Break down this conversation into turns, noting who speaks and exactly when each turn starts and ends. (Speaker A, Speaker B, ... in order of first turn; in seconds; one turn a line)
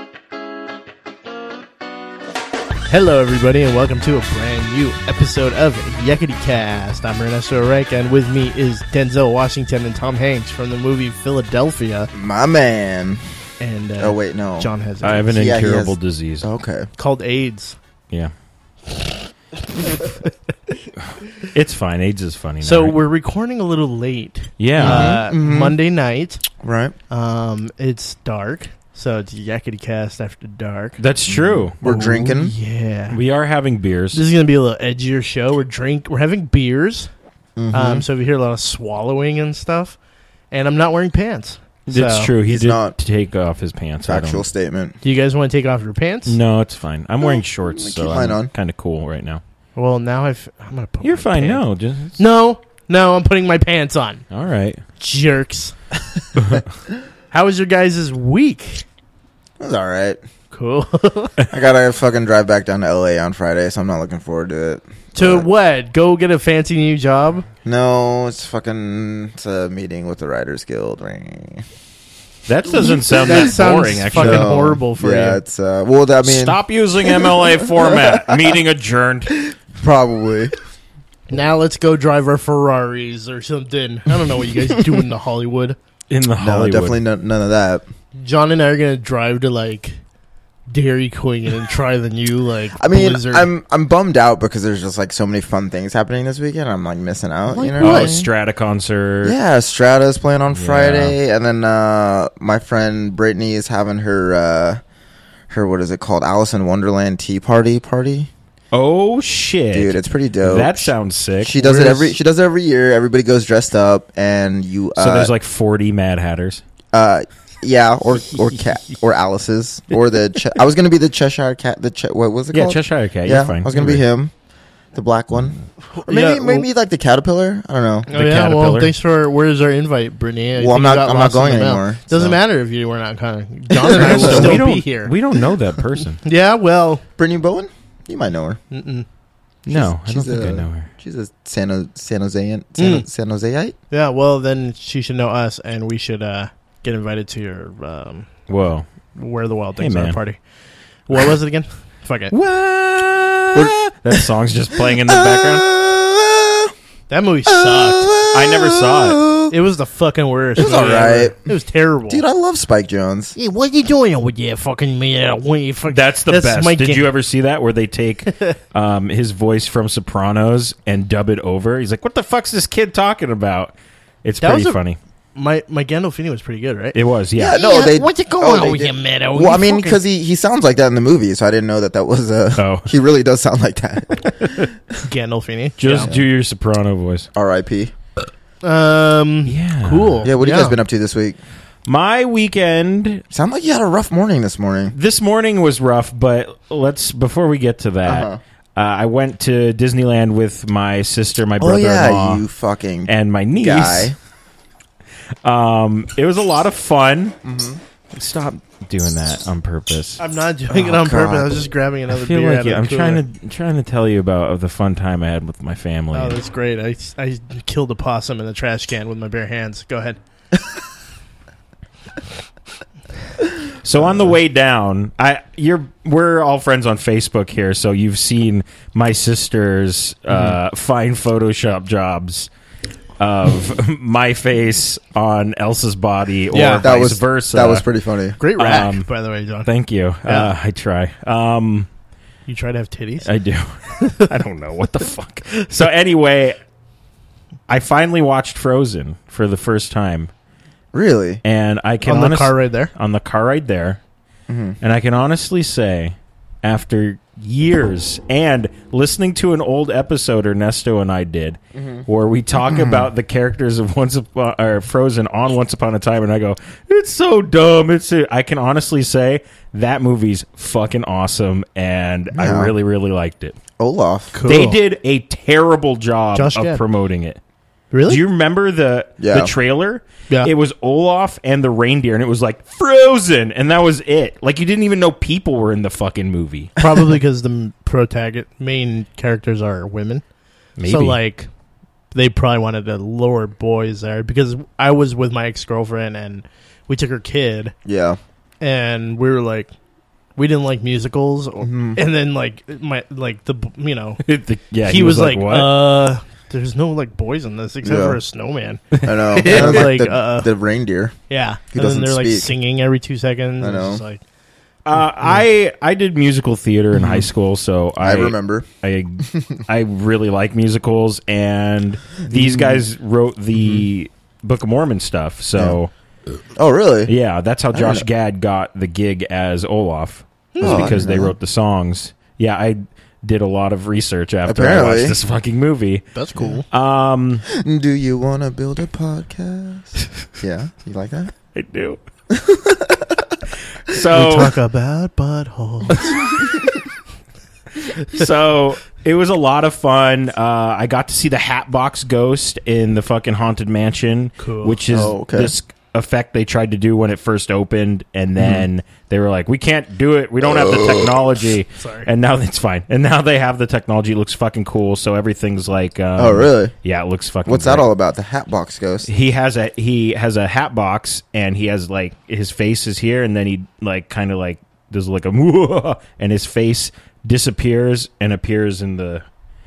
Speaker A: 2.9-12.1
Speaker B: 12.1-13.2
Speaker A: 13.6-15.3
Speaker B: 14.0-14.7
Speaker C: 15.0-16.5
Speaker B: 15.3-16.9
Speaker A: 17.0-17.8
Speaker A: 19.8-20.3
Speaker C: 21.4-23.0
Speaker A: 22.6-26.4
Speaker C: 24.6-25.2
Speaker B: 24.8-25.8
Speaker B: 26.6-26.9
Speaker A: 27.1-31.0
Speaker C: 31.0-31.8
Speaker B: 31.3-32.5
Speaker A: 31.8-33.2
Speaker C: 33.1-34.2
Speaker A: 34.1-37.1
Speaker B: 37.6-38.0
Speaker A: 37.7-40.0
Speaker A: 40.5-42.3
Speaker C: 41.9-44.5
Speaker B: 42.5-43.0
Speaker B: 44.0-45.0
Speaker A: 45.0-46.4
Speaker C: 46.3-49.4
Speaker B: 47.3-48.5
Speaker A: 49.8-51.6
Speaker C: 51.0-52.2
Speaker A: 52.2-54.2
Speaker C: 54.3-54.8
Speaker A: 55.0-55.8
Speaker C: 56.4-56.6
Speaker A: 57.3-58.9
Speaker B: 59.6-60.2
Speaker A: 60.5-61.4
Speaker B: 61.5-65.5
Speaker A: 65.2-67.5
Speaker B: 67.7-71.6
Speaker C: 72.5-74.5
Speaker B: 72.8-73.5
Speaker A: 72.9-75.4
Speaker B: 74.1-78.6
Speaker C: 76.2-79.5
Speaker B: 79.8-80.5
Speaker A: 81.3-85.8
Speaker C: 86.1-87.0
Speaker B: 86.4-87.8
Speaker A: 88.2-90.0
Speaker A: 90.7-93.5
Speaker B: 92.8-98.1
Speaker A: 97.5-98.3
Speaker C: 97.8-99.4
Speaker B: 99.2-104.8
Speaker C: 100.5-101.2
Speaker B: 105.5-108.3
Speaker C: 108.7-111.6
Speaker B: 109.7-110.9
Speaker B: 111.4-115.3
Speaker A: 111.6-112.1
Speaker C: 115.0-116.6
Speaker B: 116.9-124.3
Speaker C: 122.5-124.0
Speaker B: 124.9-128.1
Speaker A: 125.9-126.7
Speaker A: 128.1-135.1
Speaker C: 128.1-128.9
Speaker B: 130.6-132.4
Speaker B: 133.7-134.6
Speaker C: 134.0-136.2
Speaker A: 136.2-137.0
Speaker B: 137.2-138.6
Speaker A: 138.7-139.1
Speaker C: 139.7-140.9
Speaker B: 139.7-143.8
Speaker A: 142.8-143.1
Speaker A: 143.9-148.3
Speaker C: 148.5-148.9
Speaker A: 149.2-150.4
Speaker C: 149.8-150.2
Speaker A: 151.1-152.3
Speaker C: 152.3-155.7
Speaker B: 154.8-156.7
Speaker A: 157.1-158.1
Speaker B: 157.5-159.5
Speaker C: 158.3-159.2
Speaker A: 159.5-162.2
Speaker B: 160.6-161.4
Speaker B: 162.1-163.4
Speaker A: 163.4-167.1
Speaker C: 165.9-175.0
Speaker A: 174.4-174.8
Speaker A: 175.3-177.0
Speaker C: 176.9-177.6
Speaker B: 177.4-184.7
Speaker A: 177.5-180.0
Speaker C: 182.6-182.9
Speaker C: 184.3-184.7
Speaker A: 185.0-186.1
Speaker C: 185.8-187.3
Speaker B: 186.0-186.3
Speaker B: 187.3-187.9
Speaker A: 188.6-190.8
Speaker C: 189.5-190.3
Speaker B: 190.2-191.4
Speaker C: 191.9-193.2
Speaker B: 193.3-194.9
Speaker C: 194.9-202.4
Speaker B: 198.1-198.4
Speaker B: 201.6-204.2
Speaker C: 203.1-204.2
Speaker C: 205.4-207.4
Speaker B: 207.4-207.8
Speaker C: 208.1-210.2
Speaker A: 210.2-213.2
Speaker B: 210.7-211.7
Speaker C: 212.1-216.4
Speaker A: 216.1-220.2
Speaker C: 223.8-232.5
Speaker B: 230.3-230.6
Speaker C: 233.2-237.8
Speaker A: 236.5-236.9
Speaker B: 236.8-238.4
Speaker A: 238.4-239.7
Speaker C: 238.6-239.1
Speaker C: 239.7-241.9
Speaker A: 240.2-240.5
Speaker A: 242.5-243.3
Speaker C: 243.2-246.6
Speaker C: 247.7-250.3
Speaker B: 250.9-251.4
Speaker C: 251.4-254.0
Speaker A: 252.1-252.9
Speaker B: 254.5-254.8
Speaker C: 254.8-273.6
Speaker B: 261.8-262.1
Speaker B: 262.6-263.1
Speaker B: 272.4-272.7
Speaker B: 273.8-274.4
Speaker A: 274.3-274.8
Speaker C: 274.4-277.4
Speaker A: 276.4-276.8
Speaker A: 277.9-278.2
Speaker C: 278.1-286.8
Speaker B: 279.2-279.5
Speaker A: 286.8-290.2
Speaker C: 290.8-291.2
Speaker A: 290.9-291.5
Speaker A: 292.1-297.7
Speaker B: 297.9-298.2
Speaker A: 298.6-299.7
Speaker A: 300.4-304.2
Speaker B: 301.6-302.0
Speaker C: 304.2-305.8
Speaker A: 304.9-310.5
Speaker B: 307.8-308.2
Speaker C: 309.0-309.9
Speaker B: 309.0-311.1
Speaker A: 311.3-314.2
Speaker B: 311.7-312.5
Speaker B: 313.6-314.0
Speaker C: 314.9-325.9
Speaker B: 316.9-317.3
Speaker B: 318.0-318.7
Speaker B: 319.2-319.6
Speaker B: 322.3-322.8
Speaker B: 323.6-323.9
Speaker B: 326.6-327.1
Speaker C: 327.1-336.0
Speaker B: 327.7-328.1
Speaker A: 330.5-331.0
Speaker B: 330.6-331.4
Speaker B: 334.5-335.2
Speaker A: 336.1-336.6
Speaker C: 336.7-337.4
Speaker B: 337.5-341.3
Speaker C: 341.5-342.0
Speaker B: 342.3-343.3
Speaker C: 343.9-344.6
Speaker A: 344.1-346.2
Speaker C: 348.0-367.9
Speaker A: 354.4-354.8
Speaker B: 354.9-355.5
Speaker B: 358.4-358.7
Speaker B: 360.4-361.2
Speaker A: 361.8-362.1
Speaker B: 366.2-366.7
Speaker B: 367.5-369.1
Speaker C: 369.1-379.2